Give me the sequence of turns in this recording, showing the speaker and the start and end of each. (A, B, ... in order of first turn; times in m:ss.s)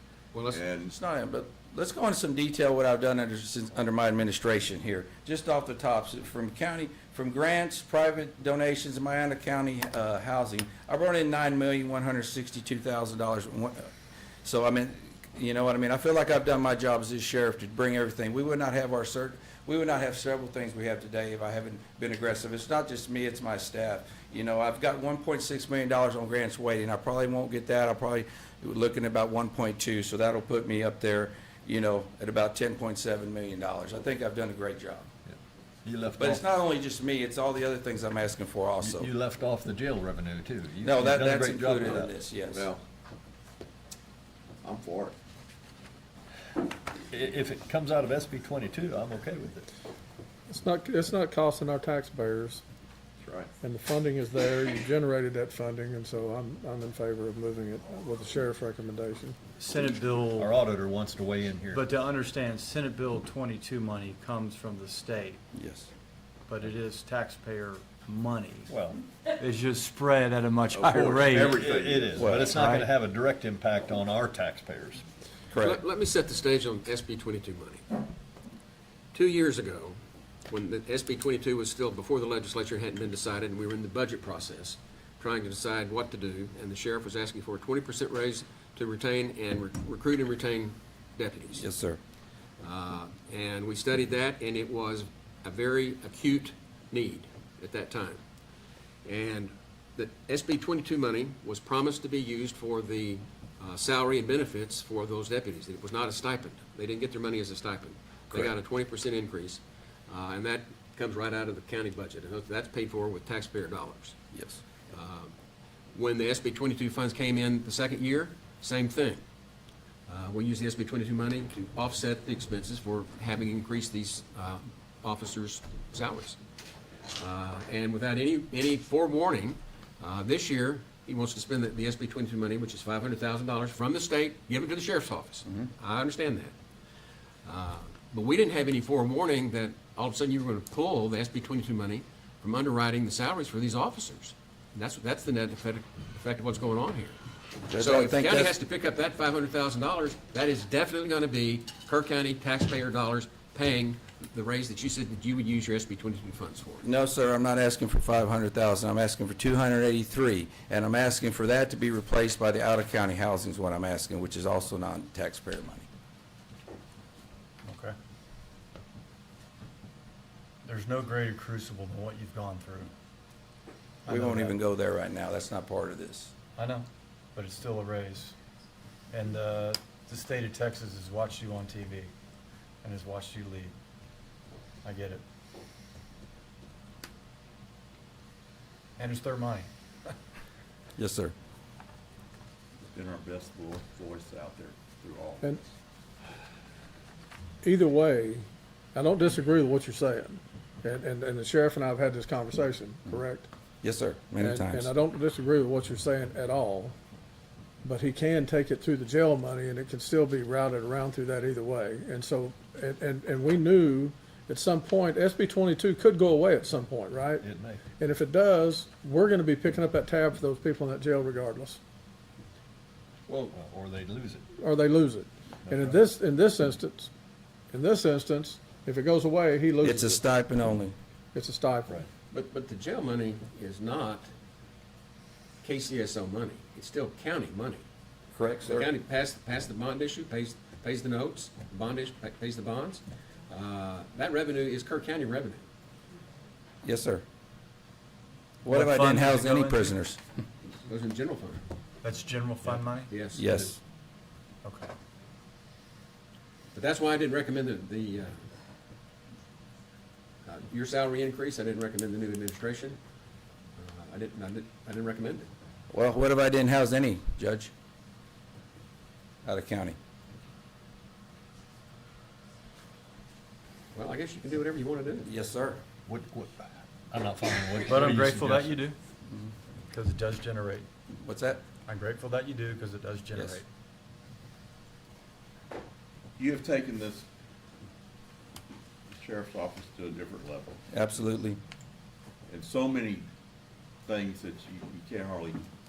0:00.3-0:00.6 A
0:00.5-0:00.9 B
0:00.9-0:13.9 C
0:14.4-0:35.1 C
0:35.3-0:36.4 D
0:36.2-0:39.1 C
0:38.8-0:42.2 D
0:40.8-0:42.6 C
0:42.5-0:42.8 B
0:44.6-0:45.1 B
0:47.1-0:49.7 D
0:50.5-0:52.6 E
0:53.2-0:53.5 B
0:53.6-0:59.4 E
0:59.6-1:00.6 F
1:00.3-1:01.8 D
1:01.7-1:05.4 F
1:05.5-1:05.9 C
1:06.5-1:08.7 F
1:08.7-1:09.0 D
1:09.4-1:11.6 F
1:10.7-1:12.3 B
1:11.3-1:15.0 D
1:12.2-1:12.5 C
1:12.5-1:12.9 F
1:15.5-1:15.8 C
1:15.6-1:17.8 A
1:19.1-1:20.0 A
1:20.5-1:31.7 A
1:31.5-1:32.0 C
1:32.6-1:38.2 A
1:39.0-1:54.2 A
1:54.3-1:54.6 C
1:54.9-1:55.3 A
1:55.9-1:59.2 A
2:00.1-2:06.4 A
2:07.2-2:16.5 A
2:17.4-2:27.2 A
2:27.7-2:28.5 C
2:27.7-2:36.8 A
2:36.8-2:45.9 C
2:47.6-2:47.9 F
2:50.6-2:52.9 F
2:54.0-2:54.6 F
2:54.1-2:56.3 C
2:56.6-2:58.3 F
2:59.1-3:02.1 F
3:02.8-3:03.7 F
3:04.8-3:05.2 F
3:09.0-3:09.6 F
3:11.0-3:11.3 C
3:12.9-3:15.6 B
3:17.6-3:18.4 E
3:18.9-3:23.5 E
3:23.8-3:24.9 C
3:24.4-3:26.9 E
3:27.8-3:37.4 E
3:37.4-3:37.8 D
3:38.0-3:41.8 E
3:43.5-3:44.4 D
3:44.6-3:47.1 E
3:45.6-3:46.1 D
3:47.7-3:50.2 E
3:49.8-3:50.9 C
3:51.3-3:52.0 E
3:52.3-3:54.3 A
3:55.6-3:57.8 A
3:58.3-3:58.9 C
3:58.6-4:05.6 A
4:06.8-4:07.2 C
4:08.6-4:10.2 C
4:08.7-4:09.9 F
4:10.8-4:11.6 A
4:12.0-4:13.1 F
4:13.1-4:13.4 A
4:13.3-4:13.8 C
4:14.6-4:14.9 F
4:16.7-4:18.4 A
4:20.4-4:23.0 A
4:23.8-4:25.5 A
4:25.9-4:27.7 C
4:29.4-4:30.0 C
4:33.9-4:35.3 A
4:35.2-4:35.8 C
4:36.1-4:38.8 D
4:37.8-4:39.0 F
4:39.9-4:40.9 F
4:41.2-4:41.6 C
4:41.8-4:43.6 F
4:43.3-4:43.6 C
4:46.4-4:47.2 B
4:49.2-4:50.8 B
4:50.9-4:51.6 C
4:52.5-4:53.2 B
4:54.1-4:55.6 B